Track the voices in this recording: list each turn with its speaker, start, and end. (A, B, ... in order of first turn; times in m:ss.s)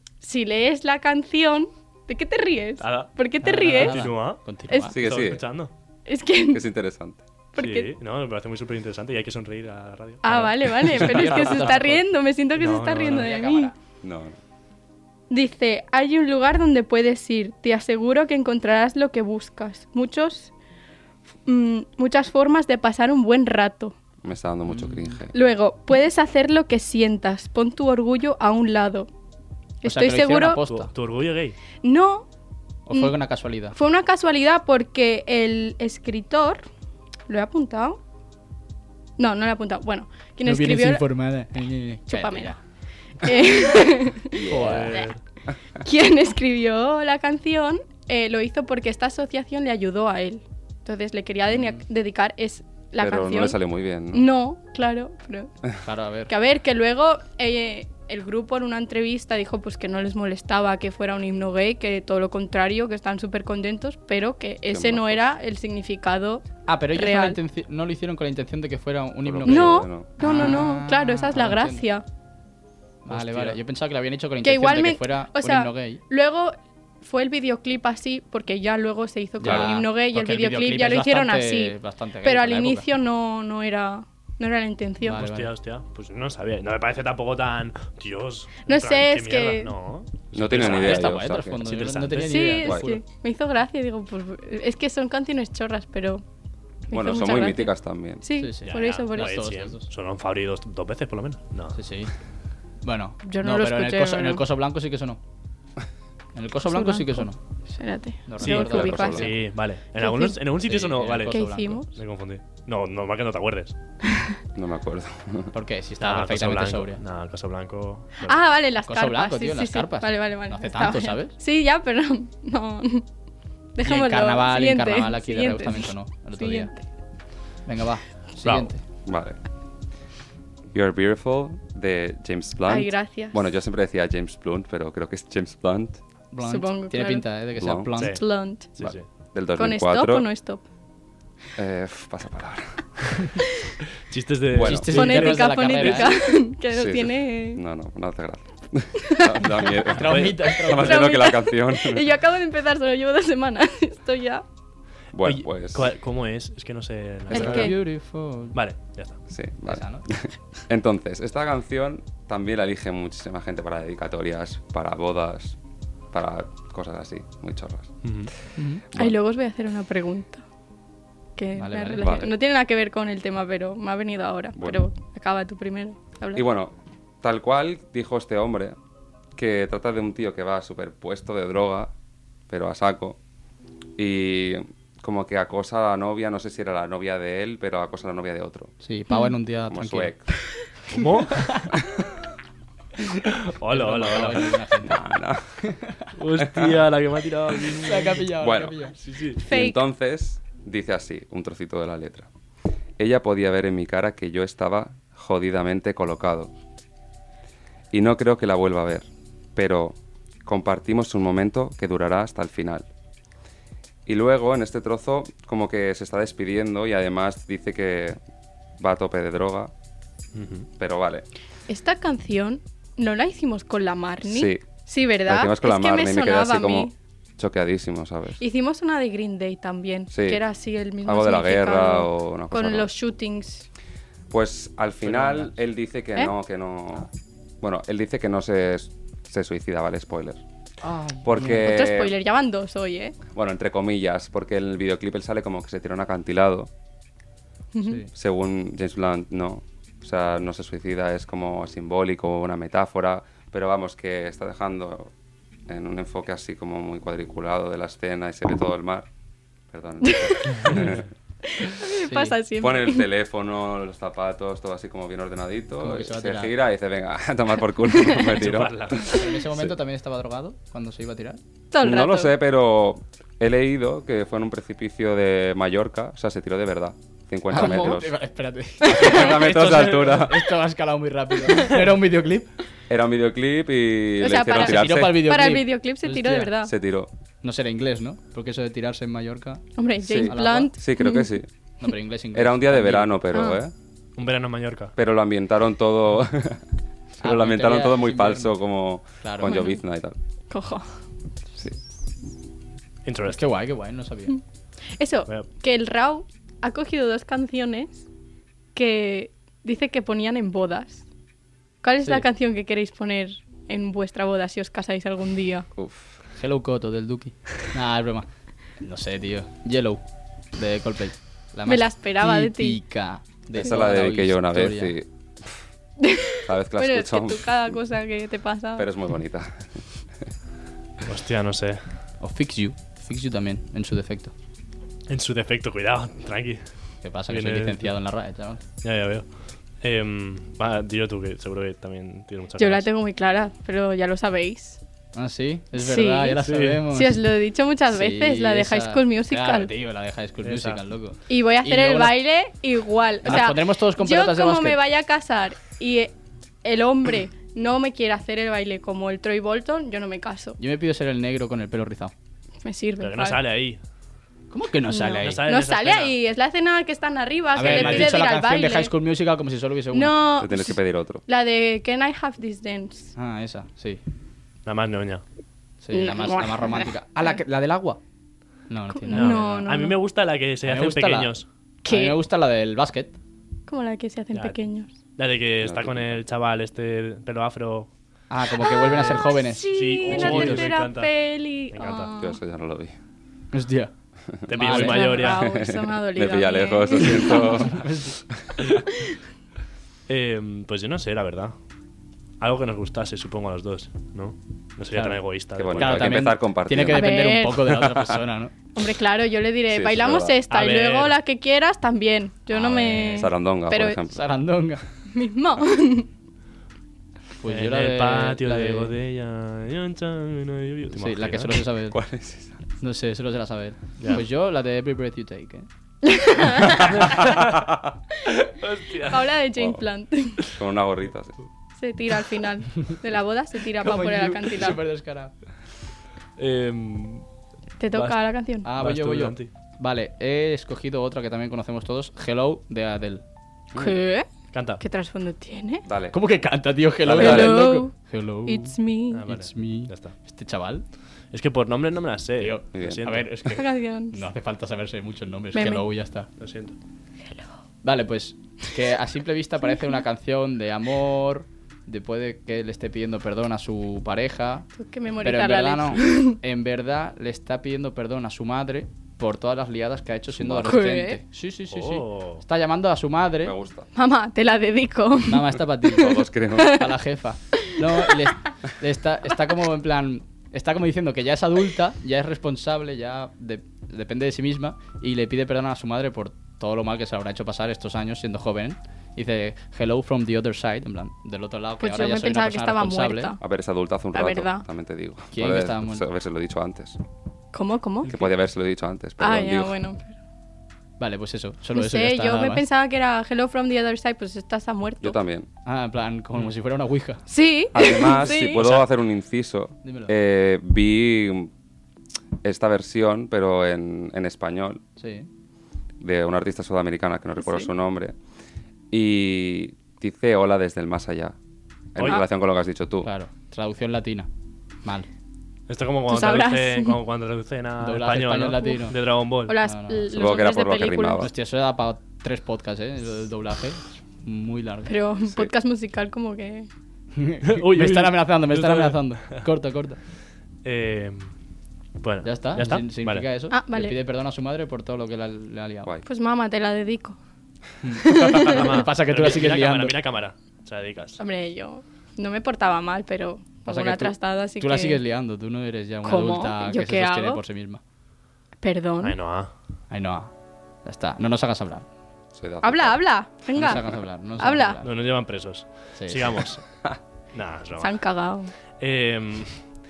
0:00.2-0:04.1 A
0:02.8-0:05.7 B
0:03.4-0:05.0 C
0:04.9-0:05.4 D
0:06.1-0:06.6 A
0:06.5-0:07.2 D
0:07.5-0:07.9 A
0:07.6-0:11.7 B
0:10.2-0:13.7 A
0:11.0-0:12.0 C
0:12.6-0:13.4 B
0:13.0-0:13.7 C
0:14.0-0:14.4 D
0:15.3-0:20.5 A
0:21.5-0:24.0 A
0:24.2-0:25.3 D
0:24.7-0:25.2 C
0:25.3-0:29.1 A
0:29.8-0:30.6 A
0:29.8-0:30.9 C
0:30.6-0:31.6 B
0:31.8-0:32.3 A
0:32.9-0:33.8 C
0:33.7-0:36.7 A
0:37.3-0:38.0 A
0:39.2-0:41.0 A
0:40.4-0:42.6 C
0:42.1-0:42.6 A
0:43.2-0:45.1 A
0:44.4-0:44.9 D
0:44.5-0:45.2 B
0:44.5-0:45.0 C
0:45.8-0:53.6 A
0:53.0-0:54.3 D
0:54.1-0:55.5 A
0:55.8-0:56.3 C
0:56.3-1:07.4 A
1:04.7-1:05.3 D
1:06.7-1:11.8 C
1:09.2-1:10.6 D
1:09.5-1:12.0 A
1:13.0-1:16.0 C
1:13.1-1:13.6 B
1:14.4-1:25.2 A
1:19.4-1:19.8 D
1:19.4-1:22.9 C
1:25.0-1:25.5 C
1:25.1-1:32.6 B
1:28.7-1:29.7 A
1:30.3-1:31.6 D
1:30.5-1:33.0 C
1:32.3-1:36.2 A
1:32.6-1:32.9 D
1:36.9-1:39.4 A
1:36.9-1:38.2 D
1:38.3-1:39.9 C
1:38.6-1:41.8 B
1:41.8-1:42.1 C
1:42.8-1:45.2 C
1:43.2-1:44.4 A
1:46.4-1:47.4 C
1:46.7-1:49.3 A
1:48.3-1:49.3 C
1:48.4-1:51.4 B
1:48.5-1:49.3 D
1:50.0-1:50.4 A
1:50.6-1:51.8 C
1:51.3-1:51.9 A
1:51.9-1:53.8 B
1:54.6-1:55.5 D
1:55.5-1:57.0 C
1:56.0-1:58.4 B
1:58.2-2:03.0 A
1:58.8-2:01.3 C
2:03.8-2:06.8 A
2:03.8-2:06.7 C
2:07.7-2:08.8 C
2:08.4-2:08.7 B
2:09.1-2:09.4 D
2:10.7-2:16.0 D
2:12.7-2:13.4 A
2:16.3-2:18.2 C
2:16.4-2:17.3 A
2:17.6-2:18.0 D
2:18.0-2:18.2 B
2:18.0-2:18.7 A
2:18.8-2:19.1 B
2:18.8-2:20.3 D
2:19.6-2:20.6 A
2:21.6-2:23.4 D
2:24.0-2:26.1 B
2:24.5-2:24.9 D
2:24.6-2:26.3 C
2:24.9-2:27.6 A
2:26.7-2:32.0 D
2:29.0-2:29.7 A
2:29.8-2:31.1 C
2:30.0-2:30.5 B
2:30.6-2:34.4 A
2:35.1-2:35.9 D
2:35.2-2:37.8 B
2:37.3-2:38.6 C
2:37.3-2:37.7 A
2:38.5-2:39.2 B
2:39.3-2:45.6 D
2:39.6-2:40.1 C
2:46.1-2:48.0 D
2:48.0-2:48.3 B
2:48.6-2:48.8 C
2:48.9-2:50.4 A
2:51.4-2:56.4 A
2:51.6-2:52.2 C
2:52.0-2:52.3 D
2:54.6-2:54.8 D
2:56.3-2:58.8 D
2:59.4-3:01.9 D
3:02.5-3:03.2 D
3:04.0-3:08.7 D
3:08.8-3:10.1 C
3:09.7-3:10.3 D
3:10.9-3:11.5 B
3:11.0-3:11.7 C
3:13.2-3:14.6 B
3:13.7-3:15.0 C
3:14.8-3:15.4 D
3:15.6-3:16.1 C
3:16.2-3:18.3 B
3:16.4-3:16.8 D
3:17.8-3:18.9 C
3:18.4-3:18.8 D
3:19.0-3:19.4 B
3:19.3-3:22.3 D
3:19.4-3:19.8 A
3:23.0-3:26.5 D
3:27.9-3:32.9 D
3:34.1-3:38.2 D
3:38.8-3:39.7 D
3:40.3-3:40.7 B
3:40.8-3:41.3 D
3:41.7-3:46.9 A
3:44.2-3:44.6 D
3:45.3-3:48.4 D
3:48.4-3:53.7 A
3:50.1-3:50.4 D
3:51.0-3:52.9 D
3:54.3-3:57.1 D
3:55.0-3:55.5 C
3:57.6-4:00.4 D
4:00.8-4:01.8 C
4:01.2-4:02.2 D
4:01.6-4:03.2 A
4:03.3-4:06.7 D
4:07.7-4:08.0 A
4:07.8-4:08.1 C
4:08.1-4:15.1 D
4:15.7-4:19.1 D
4:19.7-4:21.1 D
4:20.0-4:20.5 A
4:21.5-4:23.0 A
4:22.0-4:22.4 C
4:22.6-4:29.7 D
4:25.8-4:26.5 C
4:28.3-4:29.1 B
4:29.1-4:31.4 C
4:31.7-4:32.3 A
4:31.8-4:38.1 D
4:37.5-4:42.5 C
4:38.8-4:40.5 D
4:38.9-4:39.3 A
4:39.4-4:40.2 B
4:42.9-4:45.2 D
4:44.2-4:46.7 A
4:44.6-4:46.5 C
4:46.6-4:47.1 D
4:47.4-4:49.7 C
4:49.8-4:51.3 A
4:50.0-4:51.5 D
4:50.3-4:50.7 C
4:51.8-4:53.1 C
4:52.3-4:53.7 D
4:53.3-4:53.6 A
4:54.2-4:54.9 B
4:55.0-4:56.6 D
4:57.2-5:00.2 D
4:57.2-4:58.5 C
4:59.2-4:59.6 C
4:59.4-4:59.8 A
5:00.5-5:00.9 A
5:03.0-5:03.4 B
5:03.2-5:04.4 C
5:05.0-5:08.0 A
5:08.7-5:11.0 A
5:11.8-5:15.7 A
5:15.8-5:16.1 D
5:16.4-5:18.3 C
5:18.8-5:20.0 C
5:20.6-5:24.9 C
5:21.7-5:22.8 A
5:23.6-5:25.1 D
5:26.0-5:28.9 A
5:26.4-5:27.8 D
5:28.8-5:29.9 D
5:31.1-5:31.9 B
5:32.2-5:34.3 C
5:35.1-5:36.6 B
5:37.0-5:38.6 C
5:37.3-5:37.9 B
5:38.8-5:39.3 B
5:39.8-5:42.9 B
5:42.6-5:44.8 A
5:45.2-5:47.2 C
5:45.8-5:49.7 A
5:46.4-5:46.8 B
5:47.9-5:52.1 C
5:50.4-5:50.8 B
5:51.3-6:00.6 A
5:53.2-5:54.8 C
6:00.6-6:02.1 C
6:02.6-6:03.4 A
6:03.0-6:03.8 B
6:04.5-6:05.4 C
6:04.9-6:08.9 A
6:05.2-6:06.2 B
6:07.6-6:10.1 C
6:07.6-6:08.2 B
6:09.9-6:13.1 A
6:10.4-6:11.2 D
6:13.2-6:14.0 C
6:14.6-6:15.2 B
6:15.8-6:18.0 C
6:15.9-6:16.8 A
6:18.7-6:19.7 C
6:19.0-6:20.0 A
6:19.1-6:21.5 B
6:20.6-6:21.4 C
6:21.8-6:22.2 A
6:21.9-6:23.2 C
6:23.7-6:24.9 A
6:24.3-6:24.6 B
6:25.2-6:27.9 B
6:25.6-6:26.2 D
6:28.3-6:30.7 C
6:28.7-6:32.4 A
6:28.9-6:29.2 B
6:29.7-6:31.1 B
6:31.7-6:32.1 B
6:32.2-6:32.9 D
6:33.5-6:33.9 C
6:34.5-6:35.4 B
6:34.5-6:35.3 C
6:34.7-6:37.7 A
6:35.2-6:37.8 D
6:37.7-6:38.2 C
6:40.1-6:41.6 B
6:42.4-6:46.2 B
6:44.9-6:45.2 C
6:45.6-6:47.8 D
6:45.8-6:48.5 C
6:46.9-6:47.7 A
6:48.8-6:54.0 A
6:49.7-6:50.4 D
6:50.5-6:51.2 B
6:52.5-6:53.3 C
6:53.0-6:54.2 D
6:54.1-6:54.8 C
6:55.1-6:56.1 A
6:57.4-6:58.9 C
6:57.5-7:01.6 B
7:00.9-7:02.0 C
7:01.9-7:02.6 D
7:02.8-7:05.7 C
7:04.0-7:04.2 B
7:06.0-7:07.1 A
7:06.9-7:07.6 B
7:08.4-7:09.4 B
7:09.1-7:10.4 A
7:09.6-7:09.8 D
7:10.4-7:11.4 D
7:11.8-7:14.8 A
7:13.8-7:15.3 C
7:16.4-7:17.3 B
7:17.8-7:18.7 A
7:17.9-7:18.2 B
7:18.6-7:23.2 C
7:18.8-7:19.5 B
7:23.8-7:25.8 A
7:24.5-7:24.8 B
7:25.8-7:26.2 D
7:26.1-7:30.8 C
7:27.1-7:28.0 A
7:27.1-7:27.7 D
7:28.5-7:29.2 A
7:29.1-7:30.1 B
7:31.3-7:33.3 B
7:32.4-7:36.3 C
7:32.8-7:33.1 D
7:33.5-7:34.2 A
7:35.5-7:35.8 A
7:36.4-7:36.8 B
7:37.8-7:44.7 C
7:44.8-7:46.4 A
7:45.2-7:53.6 C
7:50.4-7:50.7 D
7:50.6-7:51.2 A
7:51.7-7:52.4 B
7:53.4-7:53.9 D
7:54.0-7:56.9 A
7:55.2-8:13.4 C
7:56.0-7:56.9 D
8:11.8-8:13.4 A
8:13.4-8:17.0 D
8:14.1-8:14.7 A
8:15.3-8:16.0 C
8:17.5-8:18.2 A
8:18.1-8:19.8 D
8:19.2-8:20.1 A
8:21.0-8:22.7 C
8:21.8-8:25.2 A
8:25.0-8:25.5 D
8:25.7-8:27.2 C
8:27.3-8:28.6 A
8:27.7-8:31.5 D
8:28.3-8:28.9 B
8:29.8-8:30.1 C
8:32.4-8:34.8 D
8:35.0-8:35.3 C
8:36.0-8:38.2 D
8:37.4-8:37.7 A
8:38.9-8:41.4 D
8:41.9-8:43.1 D
8:43.0-8:44.3 C
8:45.7-8:49.6 B
8:46.1-8:47.0 A
8:47.8-8:49.0 C
8:49.5-8:51.3 A
8:49.6-8:50.0 C
8:50.1-8:51.3 D
8:51.2-8:54.9 C
8:54.9-8:56.7 A
8:57.2-9:00.0 C
8:57.4-8:59.5 B
9:00.6-9:01.3 B
9:02.0-9:03.3 B
9:02.2-9:05.9 C
9:03.5-9:04.0 A
9:06.1-9:07.2 A
9:07.8-9:10.0 C
9:08.1-9:08.7 A
9:08.4-9:11.2 B
9:11.2-9:15.0 A
9:13.7-9:17.8 C
9:16.0-9:17.4 A
9:18.6-9:19.2 A
9:19.0-9:19.5 B
9:19.9-9:20.3 C
9:20.8-9:21.9 C
9:22.4-9:23.0 D
9:22.6-9:23.8 A
9:23.6-9:24.9 C
9:24.4-9:24.8 A
9:24.8-9:26.7 B
9:26.0-9:26.4 C
9:27.3-9:28.0 B
9:27.8-9:28.5 A
9:28.8-9:29.6 B